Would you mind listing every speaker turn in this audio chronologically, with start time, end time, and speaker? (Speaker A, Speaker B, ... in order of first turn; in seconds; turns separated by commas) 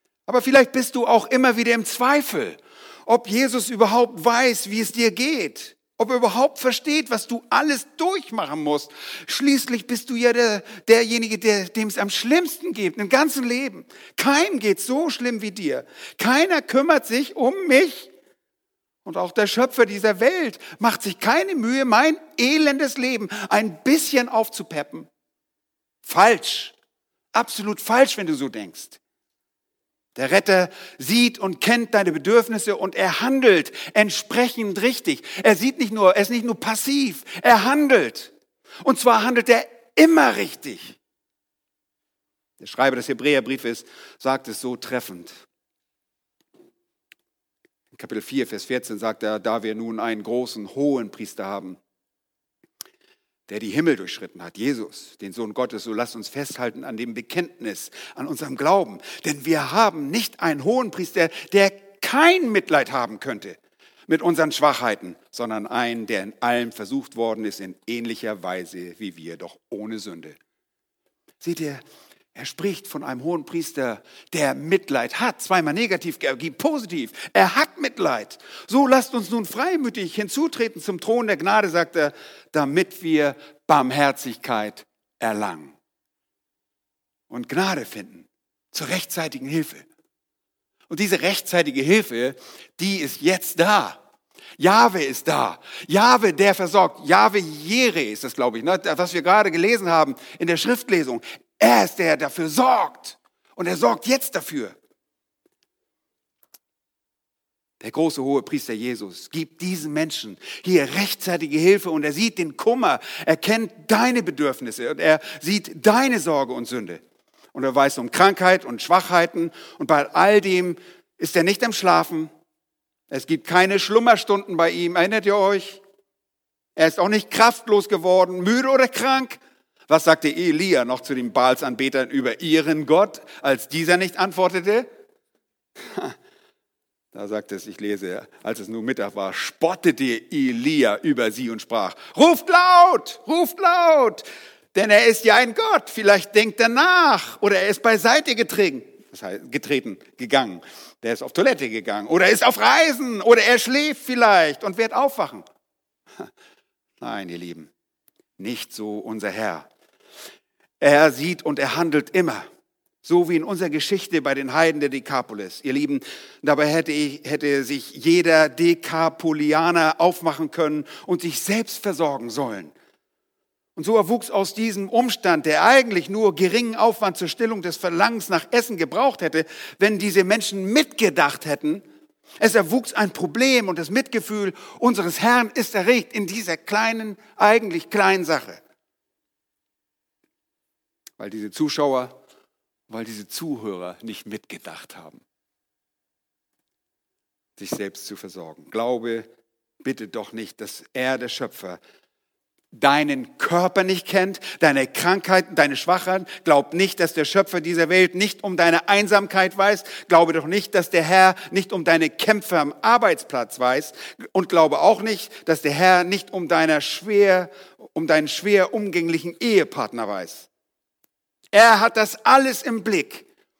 Speaker A: 0.3-18.1, Speaker A: 19.0-25.1, Speaker A: 26.0-26.8, Speaker A: 27.3-29.0, Speaker A: 30.1-38.3, Speaker A: 38.8-41.0, Speaker A: 42.6-45.4, Speaker A: 47.9-51.8, Speaker A: 53.5-70.4, Speaker A: 71.4-71.8, Speaker A: 72.3-85.8, Speaker A: 87.3-89.9, Speaker A: 90.9-94.0, Speaker A: 94.6-104.8, Speaker A: 107.8-117.0, Speaker A: 117.5-122.3, Speaker A: 123.1-125.8, Speaker A: 126.8-134.9, Speaker A: 137.1-155.4, Speaker A: 157.0-157.7, Speaker A: 158.4-159.7, Speaker A: 160.8-162.5, Speaker A: 163.0-172.7, Speaker A: 173.8-181.8, Speaker A: 182.4-188.6, Speaker A: 191.2-192.2, Speaker A: 192.9-195.2, Speaker A: 197.6-199.3, Speaker A: 199.8-201.8, Speaker A: 202.7-220.5, Speaker A: 221.5-223.2